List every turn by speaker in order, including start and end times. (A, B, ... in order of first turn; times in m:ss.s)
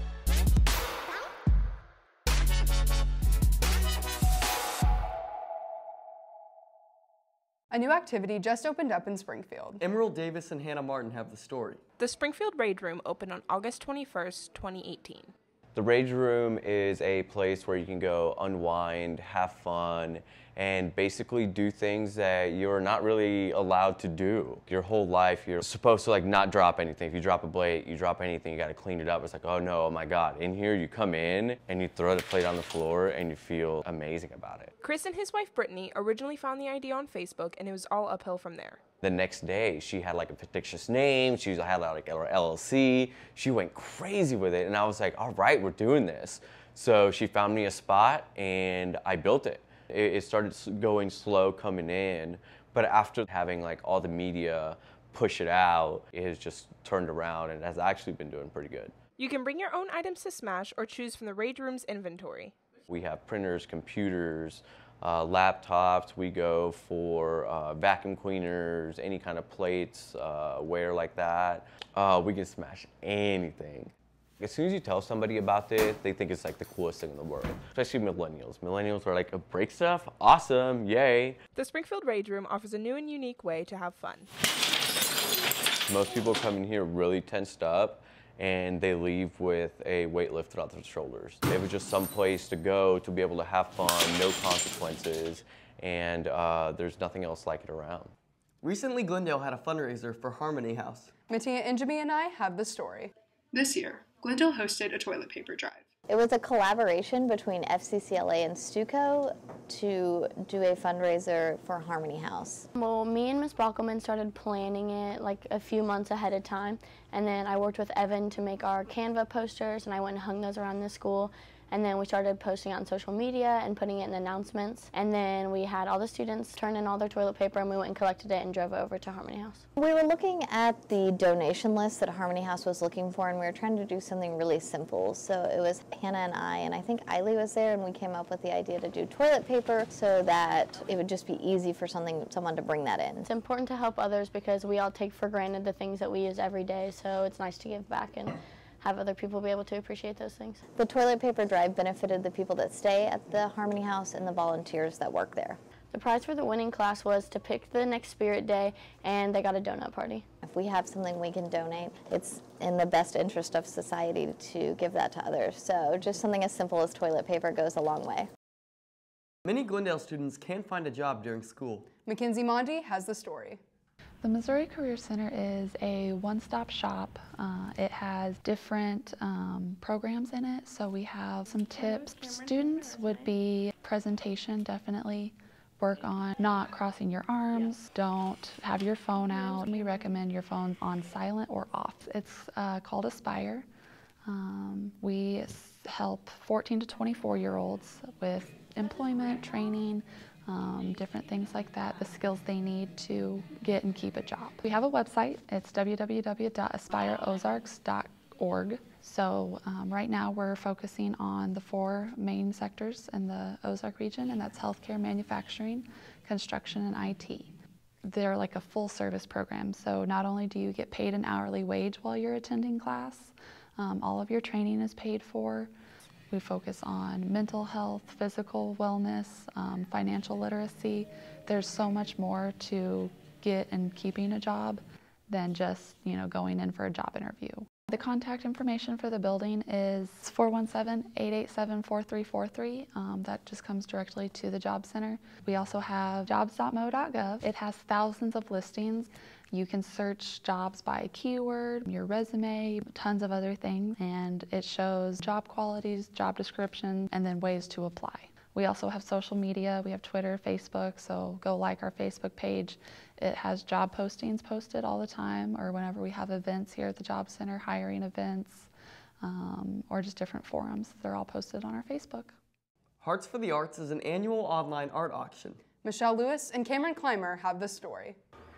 0:07.7-0:09.8 A
0:09.8-0:11.8 B
0:12.0-0:15.3 C
0:15.8-0:34.7 D
0:34.8-0:38.8 C
0:39.0-0:59.0 D
0:59.2-1:02.6 C
1:02.9-1:21.4 D
1:21.6-1:24.3 C
1:25.9-1:38.1 D
1:38.6-1:41.1 B
1:41.3-1:43.1 A
1:43.5-1:45.8 E
1:46.1-1:52.7 F
1:52.8-2:09.6 G
2:09.8-2:23.2 F
2:23.2-2:30.6 G
2:30.8-2:35.6 F
2:35.9-2:40.2 G
2:40.4-2:48.3 F
2:49.4-2:51.9 B
2:52.0-2:53.6 A
2:54.2-3:13.7 H
3:14.3-3:37.5 H
3:38.0-3:45.7 H
3:46.3-4:28.7 H
4:29.2-4:32.4 H
4:33.0-4:35.6 B
4:35.8-4:38.2 A